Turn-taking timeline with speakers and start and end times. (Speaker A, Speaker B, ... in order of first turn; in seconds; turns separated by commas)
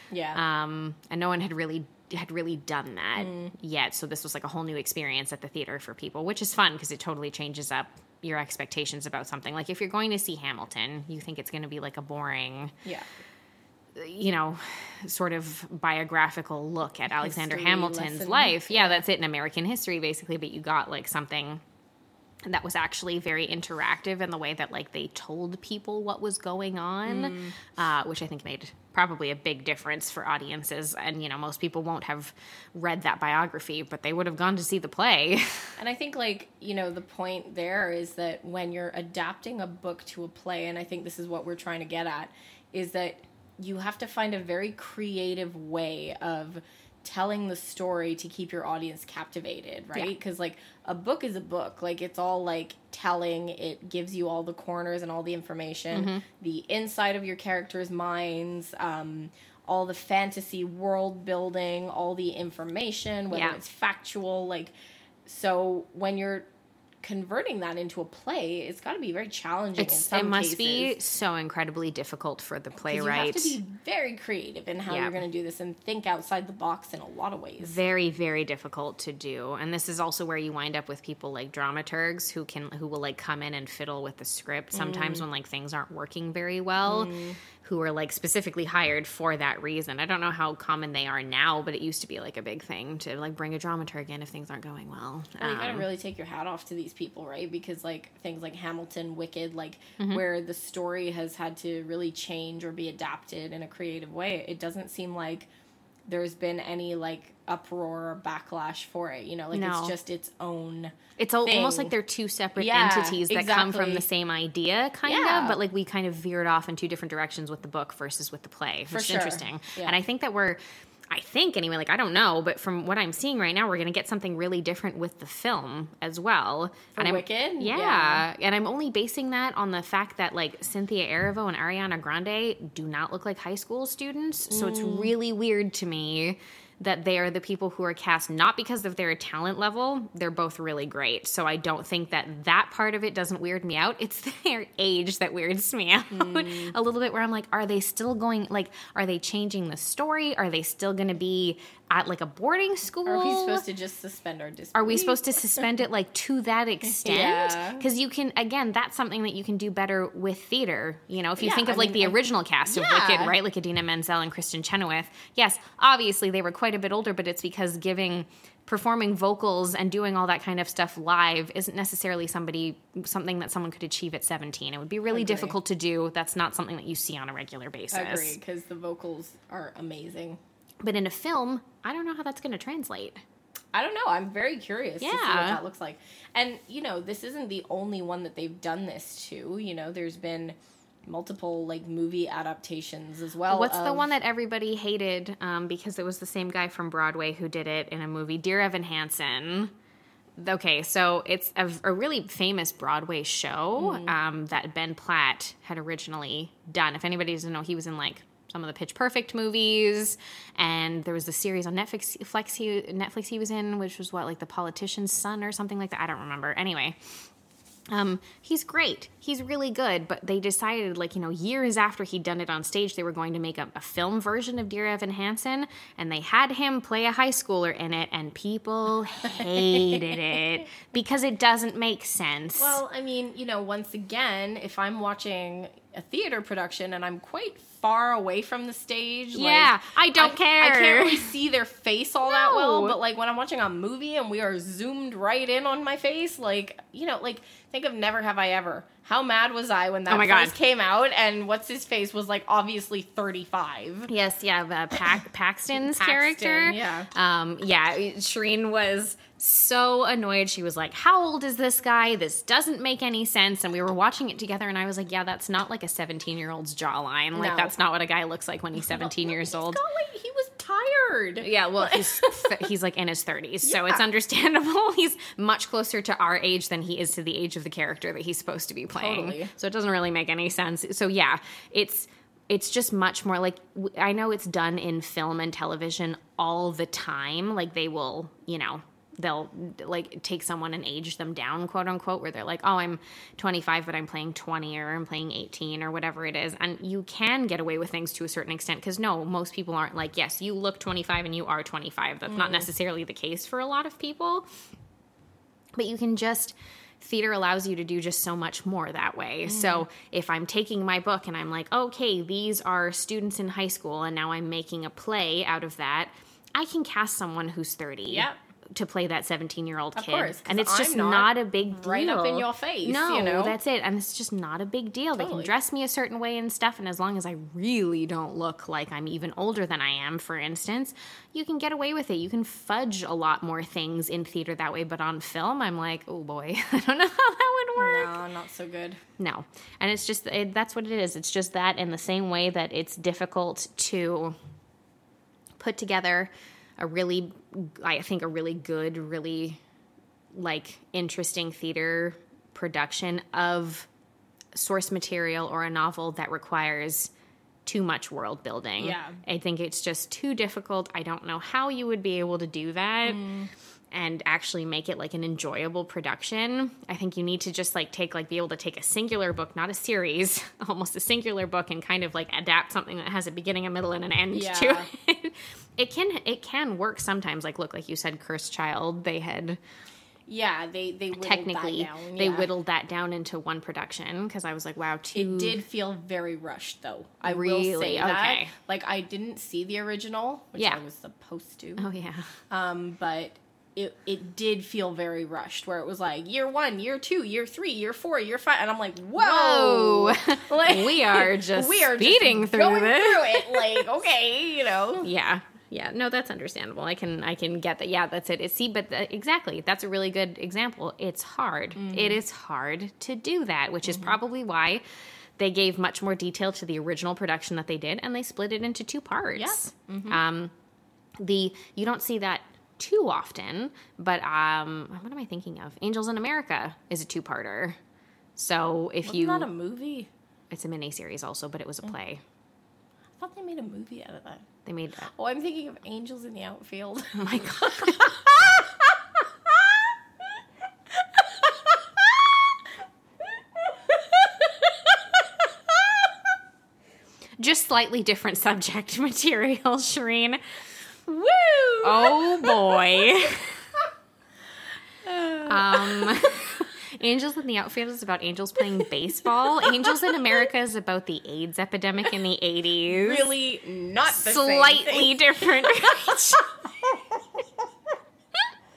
Speaker A: 0.1-0.4, Speaker B: 0.3-12.7, Speaker A: 3.1-3.5, Speaker B: 13.9-21.6, Speaker A: 17.1-19.0, Speaker B: 22.4-35.8, Speaker A: 27.0-27.6, Speaker A: 35.8-64.7, Speaker B: 55.9-56.2, Speaker B: 63.3-63.6, Speaker A: 65.2-66.5, Speaker A: 67.0-71.0, Speaker B: 69.8-73.6, Speaker A: 72.8-77.8, Speaker B: 74.9-75.2, Speaker B: 77.6-95.9, Speaker A: 84.7-85.2, Speaker A: 86.8-87.4, Speaker A: 95.4-105.5, Speaker A: 106.1-111.9, Speaker B: 109.5-110.0, Speaker B: 111.2-120.6, Speaker A: 112.5-114.0, Speaker A: 115.0-115.6, Speaker A: 118.9-120.0, Speaker B: 121.1-153.6, Speaker A: 127.0-128.2, Speaker A: 134.5-135.1, Speaker A: 146.1-146.7, Speaker A: 153.1-155.6, Speaker B: 154.7-178.4, Speaker A: 157.0-157.8, Speaker A: 161.4-163.4, Speaker A: 175.1-175.6, Speaker A: 177.9-180.4, Speaker B: 180.8-183.2, Speaker A: 183.7-194.1, Speaker B: 185.0-185.6, Speaker B: 193.5-199.7, Speaker B: 200.4-217.0, Speaker A: 203.8-204.1, Speaker B: 217.9-232.8, Speaker A: 229.3-230.2, Speaker A: 232.6-254.1, Speaker B: 239.3-241.3, Speaker B: 242.2-243.0, Speaker B: 250.1-250.6, Speaker B: 254.1-269.8, Speaker A: 255.7-257.1, Speaker A: 267.3-267.7, Speaker A: 268.8-272.6, Speaker B: 271.4-304.4, Speaker A: 273.6-274.0, Speaker A: 278.9-279.5, Speaker A: 302.3-302.7, Speaker B: 305.7-338.2, Speaker A: 309.4-309.9, Speaker A: 318.1-318.4, Speaker A: 319.9-323.6, Speaker A: 325.2-325.5, Speaker A: 337.8-339.0, Speaker B: 339.2-344.4, Speaker B: 345.6-349.6, Speaker B: 350.3-353.9, Speaker B: 354.5-357.1, Speaker B: 357.6-363.2, Speaker A: 358.8-359.2, Speaker A: 363.0-363.5, Speaker B: 363.9-379.6, Speaker A: 374.3-374.9, Speaker A: 380.3-382.5, Speaker B: 381.1-385.6, Speaker A: 385.1-391.8, Speaker B: 387.2-388.5, Speaker B: 391.8-392.3, Speaker A: 392.5-405.1, Speaker B: 399.1-403.8, Speaker B: 405.0-414.8, Speaker A: 411.8-412.2, Speaker A: 413.9-414.1, Speaker B: 415.4-420.5, Speaker A: 419.4-420.2, Speaker B: 421.2-427.8, Speaker B: 428.4-429.5, Speaker A: 429.0-430.1, Speaker B: 430.5-432.2, Speaker A: 433.2-434.4, Speaker B: 434.6-435.1, Speaker A: 435.1-439.9, Speaker B: 437.1-438.4, Speaker A: 441.1-442.6, Speaker A: 443.6-446.1, Speaker B: 447.4-450.4, Speaker A: 451.1-453.1, Speaker B: 451.8-453.6, Speaker A: 455.0-456.5, Speaker B: 455.4-463.3, Speaker A: 459.6-460.2, Speaker A: 462.9-467.5, Speaker B: 464.1-466.5